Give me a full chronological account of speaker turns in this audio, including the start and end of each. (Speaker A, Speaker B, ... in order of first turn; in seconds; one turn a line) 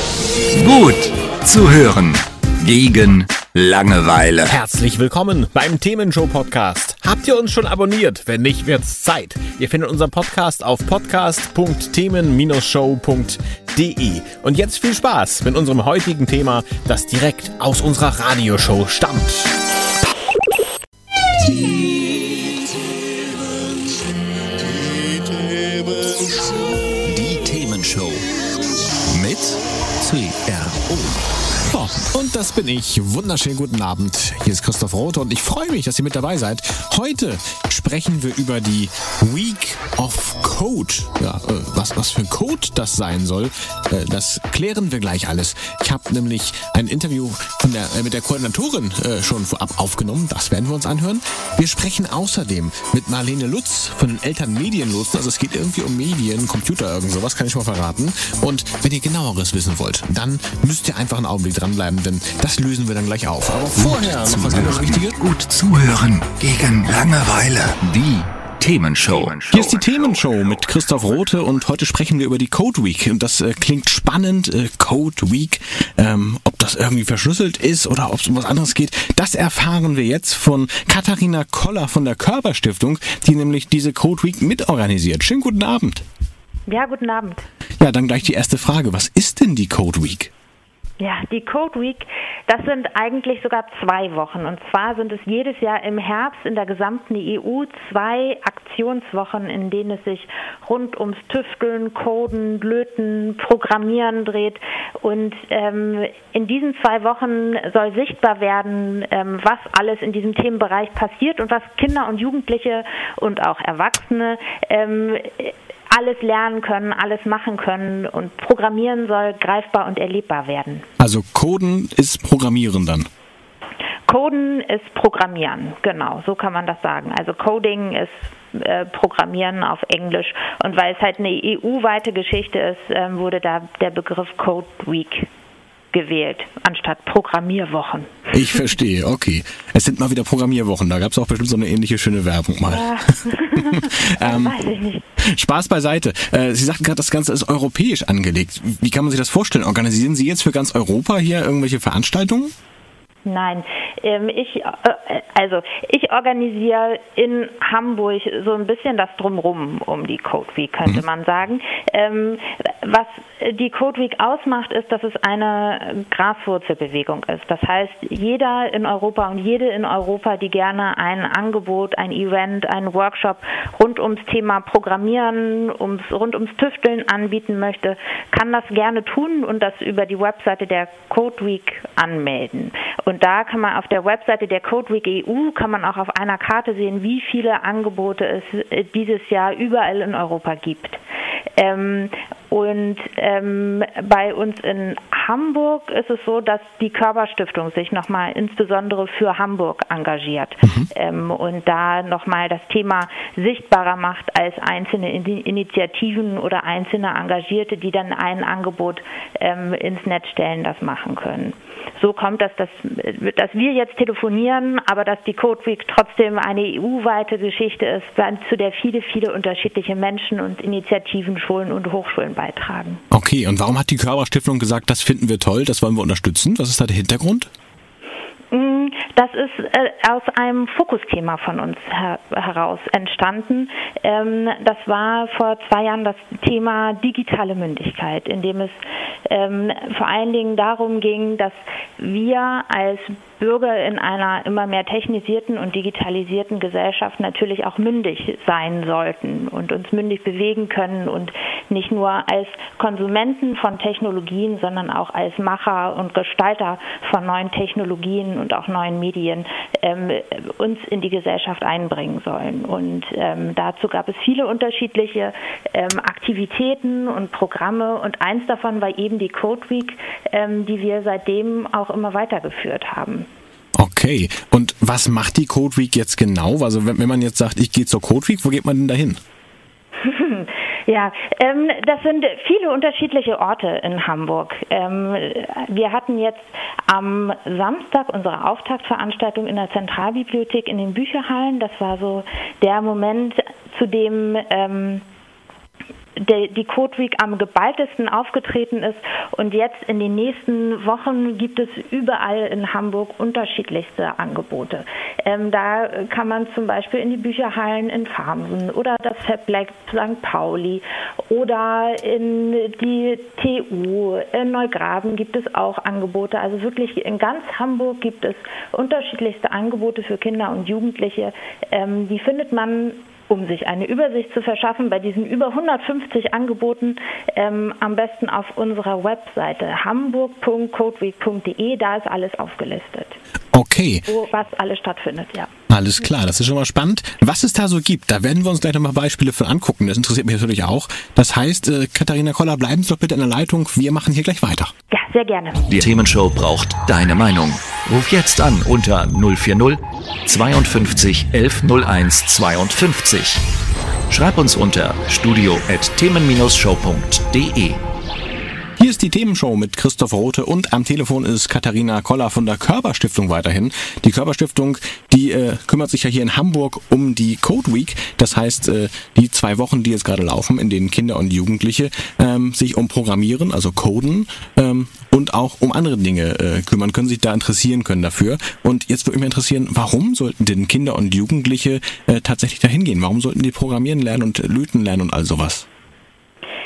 Speaker A: 0.5-4.5
Speaker B: 4.5-19.5
Speaker B: 21.5-21.8
Speaker A: 27.0-28.3
Speaker A: 29.1-29.6
Speaker B: 30.0-31.1
Speaker B: 31.7-65.2
Speaker A: 63.8-71.1
Speaker B: 69.5-86.0
Speaker C: 86.7-87.5
Speaker B: 87.8-90.3
Speaker C: 91.0-120.8
Speaker B: 121.0-123.1
Speaker C: 124.1-135.3
Speaker C: 135.9-138.7
Speaker B: 138.3-143.0
Speaker C: 142.7-145.0
Speaker B: 143.5-144.6
Speaker B: 145.2-152.5
Speaker C: 153.2-191.0
Speaker C: 191.6-223.0
Speaker B: 200.6-200.9
Speaker B: 223.1-227.5
Speaker C: 228.5-273.3
Speaker B: 273.8-279.2
Speaker C: 280.0-295.0
Speaker C: 296.2-333.2
Speaker B: 333.5-334.1
Speaker C: 334.1-335.5
Speaker B: 335.7-344.7
Speaker C: 344.9-345.6
Speaker A: 345.7-353.4
Speaker A: 354.1-357.8
Speaker B: 358.8-385.7